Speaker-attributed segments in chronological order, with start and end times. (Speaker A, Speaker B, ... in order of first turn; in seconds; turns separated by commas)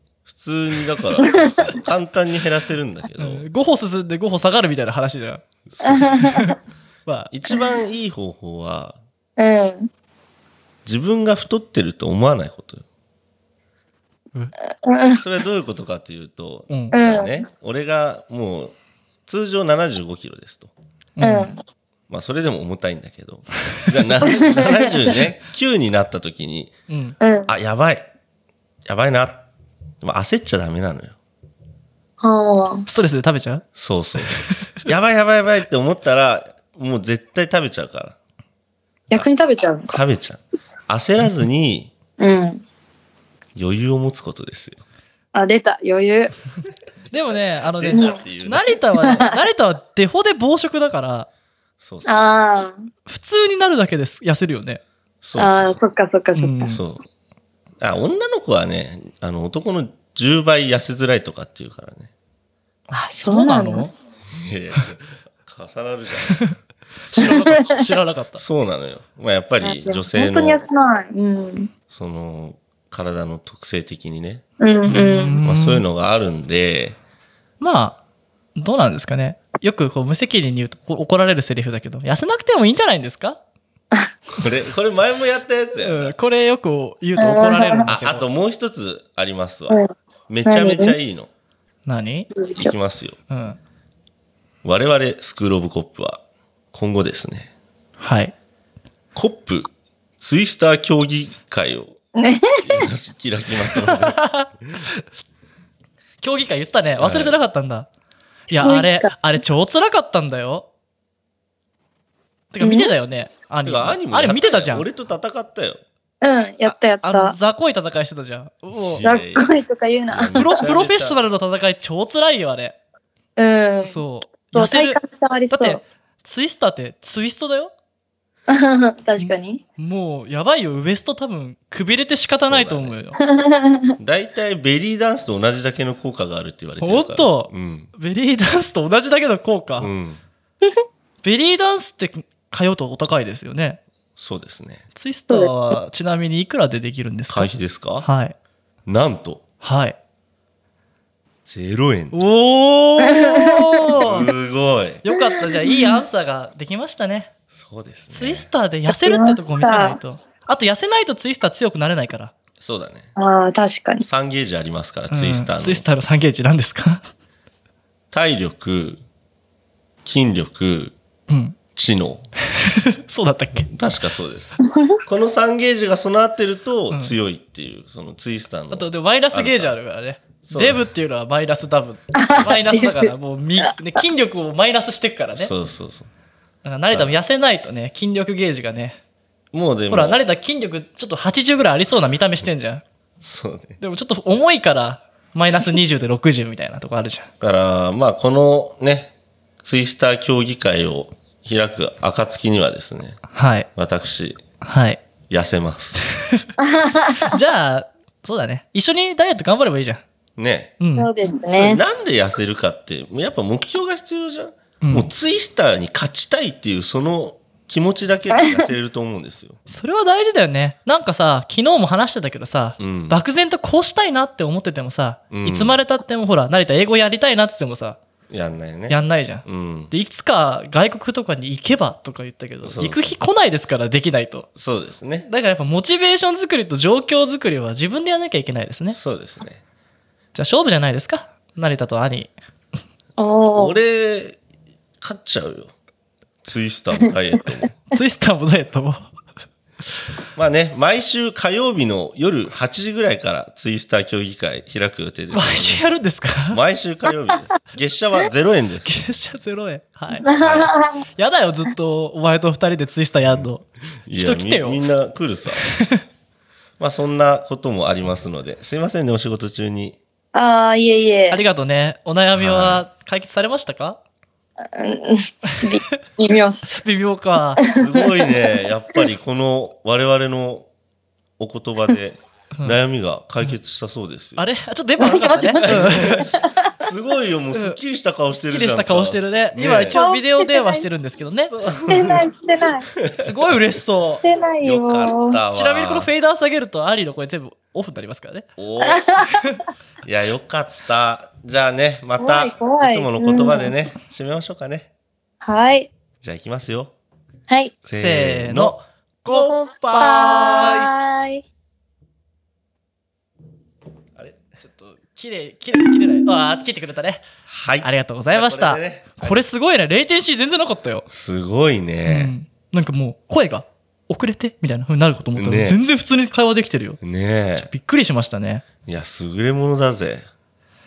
Speaker A: 0.2-3.4, Speaker B: 1.2-1.8, Speaker C: 3.2-5.4, Speaker A: 5.7-6.4, Speaker B: 5.8-6.5, Speaker C: 6.2-7.3, Speaker A: 7.3-9.0, Speaker B: 9.4-9.9, Speaker A: 10.8-12.8, Speaker B: 14.8-15.2, Speaker A: 15.2-18.8, Speaker B: 16.9-17.5, Speaker A: 19.3-20.7, Speaker C: 21.2-21.5, Speaker B: 21.2-21.6, Speaker A: 22.1-26.7, Speaker B: 24.2-25.0, Speaker C: 26.9-27.2, Speaker B: 27.2-27.5, Speaker A: 27.5-28.1, Speaker A: 28.9-29.4, Speaker A: 30.0-31.2, Speaker B: 32.2-32.9, Speaker C: 32.9-33.6, Speaker A: 33.8-38.2, Speaker C: 34.2-34.7, Speaker B: 39.1-39.9, Speaker A: 39.9-41.9, Speaker B: 42.2-42.6, Speaker A: 43.5-44.8, Speaker B: 45.3-46.4, Speaker A: 47.1-48.8, Speaker C: 47.1-51.3, Speaker B: 47.9-48.2, Speaker B: 49.0-49.4, Speaker A: 51.8-52.4, Speaker B: 52.0-52.8, Speaker C: 53.1-54.8, Speaker A: 55.2-55.8, Speaker B: 55.4-56.8, Speaker C: 56.4-56.8, Speaker A: 56.7-57.0, Speaker A: 57.8-62.1, Speaker C: 62.9-63.9, Speaker B: 62.9-63.9, Speaker A: 64.3-66.5, Speaker C: 67.1-68.4, Speaker A: 67.2-67.5, Speaker B: 67.2-67.7, Speaker A: 68.4-70.6, Speaker B: 69.6-71.7, Speaker A: 71.9-74.4, Speaker B: 74.6-75.4, Speaker C: 74.9-75.8, Speaker A: 75.4-77.0, Speaker C: 77.6-78.0, Speaker C: 78.5-83.4, Speaker A: 84.3-86.1, Speaker C: 85.8-88.2, Speaker B: 87.2-87.9, Speaker A: 87.8-91.3, Speaker B: 90.4-91.0, Speaker C: 91.9-92.3, Speaker B: 92.3-92.7, Speaker A: 92.6-93.2, Speaker C: 93.3-93.6, Speaker A: 94.6-96.2, Speaker A: 96.7-97.5, Speaker C: 98.0-98.3, Speaker A: 99.1-102.0, Speaker B: 102.1-102.9, Speaker A: 102.6-104.8, Speaker C: 103.8-105.0, Speaker C: 106.2-107.9, Speaker A: 107.0-107.4, Speaker C: 108.5-110.7, Speaker B: 108.5-109.1, Speaker C: 112.5-114.9, Speaker B: 112.6-112.9, Speaker A: 113.6-115.8, Speaker B: 116.2-117.4, Speaker C: 116.7-119.1, Speaker A: 118.8-119.5, Speaker B: 119.0-120.6, Speaker A: 120.1-121.2, Speaker C: 120.3-122.8, Speaker B: 123.4-125.8, Speaker C: 123.8-125.0, Speaker C: 125.5-127.7, Speaker B: 128.5-129.6, Speaker C: 129.2-133.2, Speaker A: 132.3-133.0, Speaker B: 133.2-133.9, Speaker A: 134.0-137.9, Speaker C: 136.8-139.9, Speaker A: 139.8-140.2, Speaker C: 141.2-143.8, Speaker A: 144.2-144.9, Speaker C: 144.9-147.5, Speaker A: 147.3-148.1, Speaker C: 148.0-148.4, Speaker A: 148.9-149.4, Speaker C: 149.6-150.0, Speaker A: 151.4-152.2, Speaker C: 152.1-154.3, Speaker B: 153.0-153.9, Speaker A: 154.0-155.0, Speaker C: 155.0-157.3, Speaker B: 155.1-156.0, Speaker A: 157.5-158.5, Speaker C: 158.1-162.3, Speaker B: 158.9-160.0, Speaker A: 162.6-163.1, Speaker B: 163.2-164.0, Speaker A: 164.0-165.8, Speaker C: 165.1-167.0, Speaker A: 168.1-169.0, Speaker A: 170.0-170.9, Speaker C: 171.3-171.6, Speaker A: 171.7-172.2, Speaker C: 172.6-173.7, Speaker A: 173.7-179.7, Speaker B: 174.6-175.0, Speaker C: 178.7-185.5, Speaker A: 180.4-180.8, Speaker B: 182.1-183.7, Speaker A: 185.4-186.1, Speaker C: 186.6-189.0, Speaker A: 186.9-187.2, Speaker A: 189.5-190.2, Speaker C: 189.9-192.8, Speaker A: 193.2-193.8, Speaker C: 193.8-197.3, Speaker A: 197.4-203.2, Speaker C: 203.3-203.7, Speaker A: 203.8-204.4, Speaker C: 204.6-205.0, Speaker A: 205.3-206.0, Speaker C: 206.1-206.5, Speaker B: 206.6-207.4, Speaker C: 207.2-210.0, Speaker A: 210.4-210.7, Speaker C: 210.8-211.1, Speaker B: 211.0-211.8, Speaker A: 211.5-219.6, Speaker C: 214.8-215.1, Speaker C: 219.7-228.0, Speaker A: 222.8-223.2, Speaker A: 225.3-225.8, Speaker A: 228.3-229.9, Speaker C: 228.9-234.5, Speaker A: 232.6-233.1, Speaker A: 234.6-235.3, Speaker C: 235.2-239.0, Speaker A: 238.9-239.6, Speaker C: 240.3-242.3, Speaker B: 243.2-243.8, Speaker A: 243.5-244.4, Speaker A: 245.0-245.7, Speaker A: 246.4-247.7, Speaker C: 247.9-249.1, Speaker A: 250.4-255.8, Speaker C: 255.3-256.6, Speaker A: 256.5-258.9, Speaker C: 258.9-260.3, Speaker B: 260.2-261.0, Speaker A: 260.3-260.7, Speaker C: 261.1-264.8, Speaker A: 264.1-265.7, Speaker C: 265.7-266.0, Speaker A: 266.8-270.0, Speaker B: 270.3-271.4, Speaker C: 271.3-274.0, Speaker A: 272.4-272.9, Speaker B: 274.7-276.9, Speaker C: 275.5-275.9, Speaker C: 276.7-277.6, Speaker B: 277.6-278.6, Speaker A: 277.7-280.7, Speaker A: 281.4-284.4, Speaker C: 284.4-286.3, Speaker B: 285.0-286.7, Speaker A: 285.6-290.0, Speaker C: 288.4-291.5, Speaker B: 289.9-290.9, Speaker A: 291.4-292.3, Speaker B: 291.8-292.9, Speaker A: 292.9-293.6, Speaker C: 293.2-294.2, Speaker B: 294.2-295.4, Speaker A: 294.6-296.1, Speaker C: 295.5-298.5, Speaker A: 298.6-299.3, Speaker B: 298.8-299.6, Speaker A: 300.0-304.9, Speaker B: 302.2-303.7, Speaker B: 305.4-305.9, Speaker A: 306.2-306.9, Speaker A: 307.8-310.9, Speaker C: 308.0-310.6, Speaker B: 309.3-311.4, Speaker C: 314.6-317.2, Speaker A: 317.5-319.4, Speaker C: 317.8-321.1, Speaker A: 321.1-322.3, Speaker C: 322.0-327.0, Speaker A: 325.4-325.8, Speaker A: 327.0-327.7, Speaker C: 327.6-328.6, Speaker A: 328.9-330.3